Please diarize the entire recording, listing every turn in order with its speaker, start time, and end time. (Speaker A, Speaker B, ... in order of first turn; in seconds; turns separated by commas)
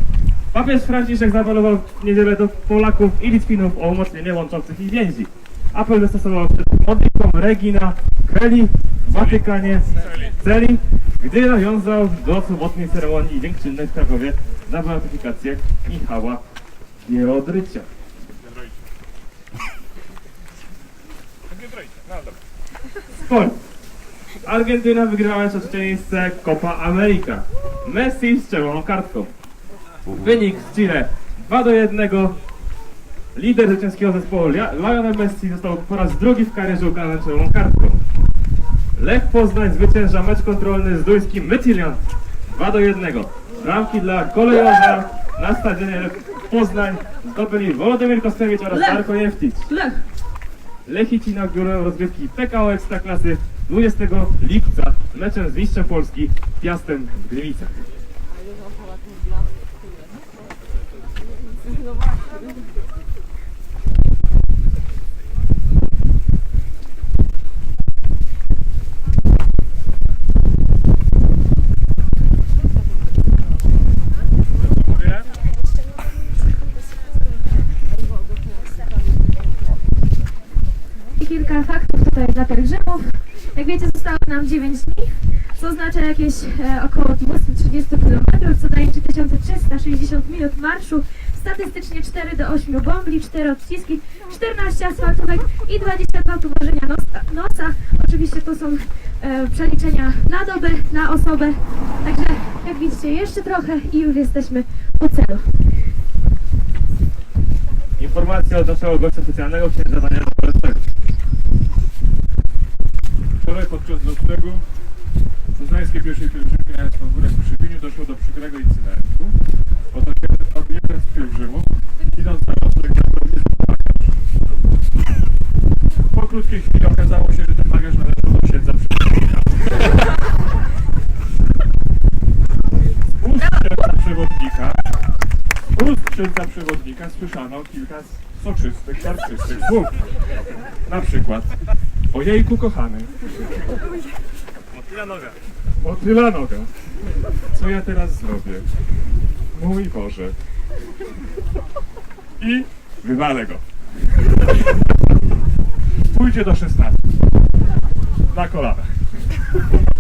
Speaker A: 0.5-16.4, Speaker B: 9.1-10.3, Speaker A: 17.0-17.9, Speaker B: 18.4-18.9, Speaker B: 21.5-22.4, Speaker A: 23.2-23.6, Speaker A: 24.4-29.3, Speaker A: 30.1-32.4, Speaker A: 33.4-38.0, Speaker A: 39.0-49.7, Speaker C: 48.7-49.1, Speaker C: 49.7-50.0, Speaker A: 50.9-57.9, Speaker B: 74.7-75.3, Speaker C: 81.2-105.5, Speaker A: 108.0-110.8, Speaker B: 113.4-114.6, Speaker B: 115.6-119.4, Speaker B: 119.9-124.1, Speaker B: 126.1-129.8, Speaker B: 133.2-134.8, Speaker B: 135.7-140.0, Speaker B: 140.8-141.6, Speaker B: 142.1-143.1, Speaker A: 144.7-145.3, Speaker B: 145.8-146.7, Speaker B: 147.5-148.7, Speaker B: 149.5-150.4, Speaker B: 152.4-153.6, Speaker B: 156.1-157.0, Speaker B: 158.3-159.0